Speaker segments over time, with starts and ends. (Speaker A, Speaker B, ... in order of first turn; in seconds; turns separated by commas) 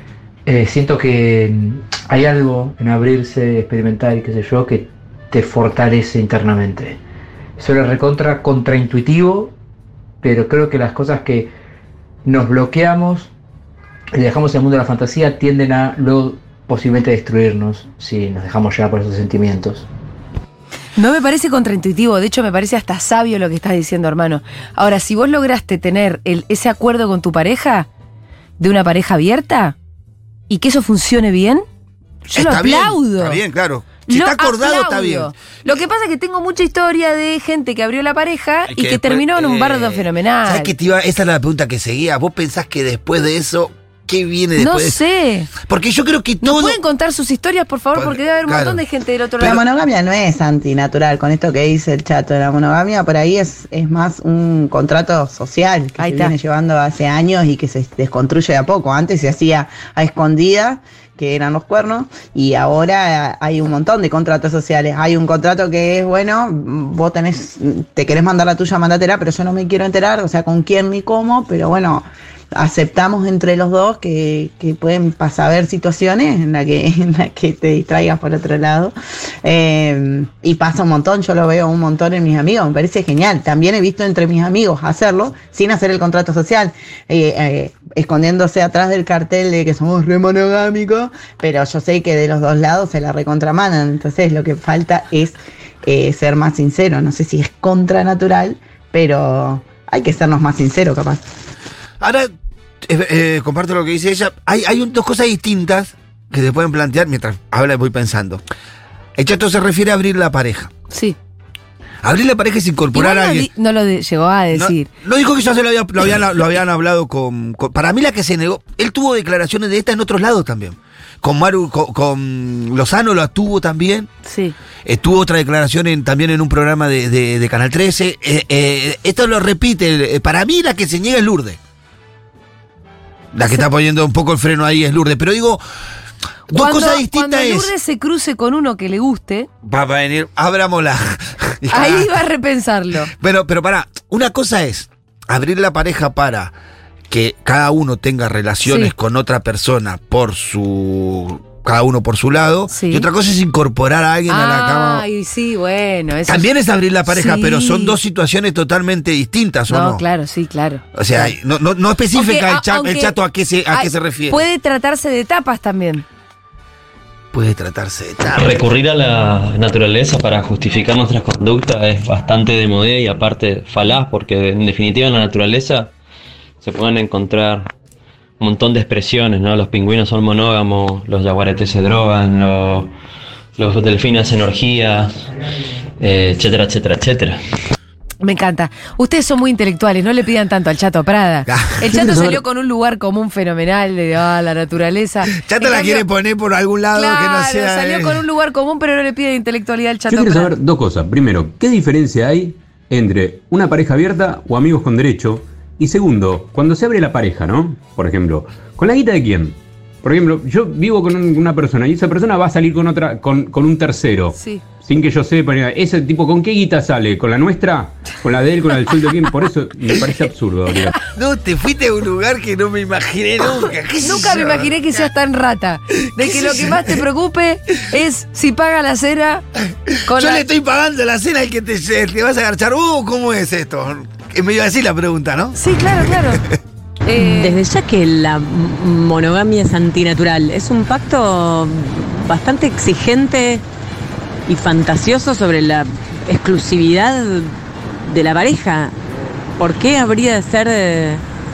Speaker A: 0.5-7.0, Speaker A: 7.6-9.5, Speaker A: 10.2-11.5, Speaker A: 12.2-13.3, Speaker A: 14.1-19.9, Speaker B: 20.9-27.9, Speaker B: 28.6-29.8, Speaker B: 30.5-31.6, Speaker C: 32.2-35.3, Speaker B: 32.3-33.4, Speaker B: 34.1-40.7, Speaker C: 38.7-45.0, Speaker B: 44.6-45.5, Speaker C: 45.6-46.8, Speaker B: 46.4-49.6, Speaker C: 47.9-48.8, Speaker D: 49.4-101.2, Speaker B: 56.0-56.3, Speaker C: 102.0-108.4, Speaker C: 109.2-110.7, Speaker B: 110.9-111.2, Speaker C: 112.0-113.5, Speaker B: 112.9-114.9, Speaker C: 114.5-124.1, Speaker B: 124.2-124.5, Speaker C: 124.8-131.6, Speaker C: 133.3-135.6, Speaker C: 136.5-137.7, Speaker B: 136.5-139.5, Speaker C: 139.6-142.2, Speaker B: 141.7-143.1, Speaker C: 143.1-146.5, Speaker C: 147.1-155.0, Speaker B: 148.6-148.9, Speaker B: 152.7-153.1, Speaker B: 154.3-156.5, Speaker C: 156.3-160.0, Speaker B: 157.1-158.0, Speaker B: 159.7-161.3, Speaker C: 160.9-164.4, Speaker B: 162.1-163.1, Speaker B: 163.7-166.0, Speaker C: 167.3-168.6, Speaker E: 168.3-175.9, Speaker E: 176.6-177.7, Speaker E: 178.4-182.9, Speaker E: 183.6-185.2, Speaker E: 186.0-187.4, Speaker B: 188.2-196.1, Speaker C: 191.5-192.4, Speaker C: 195.3-198.2, Speaker B: 196.9-200.5, Speaker F: 200.1-221.0, Speaker B: 214.3-214.6, Speaker C: 221.1-225.0, Speaker B: 224.0-229.4, Speaker C: 225.9-227.0, Speaker C: 229.9-236.6, Speaker B: 230.1-230.4, Speaker B: 235.5-236.4, Speaker B: 237.0-237.6, Speaker G: 237.1-243.6, Speaker G: 244.5-249.0, Speaker G: 249.6-251.2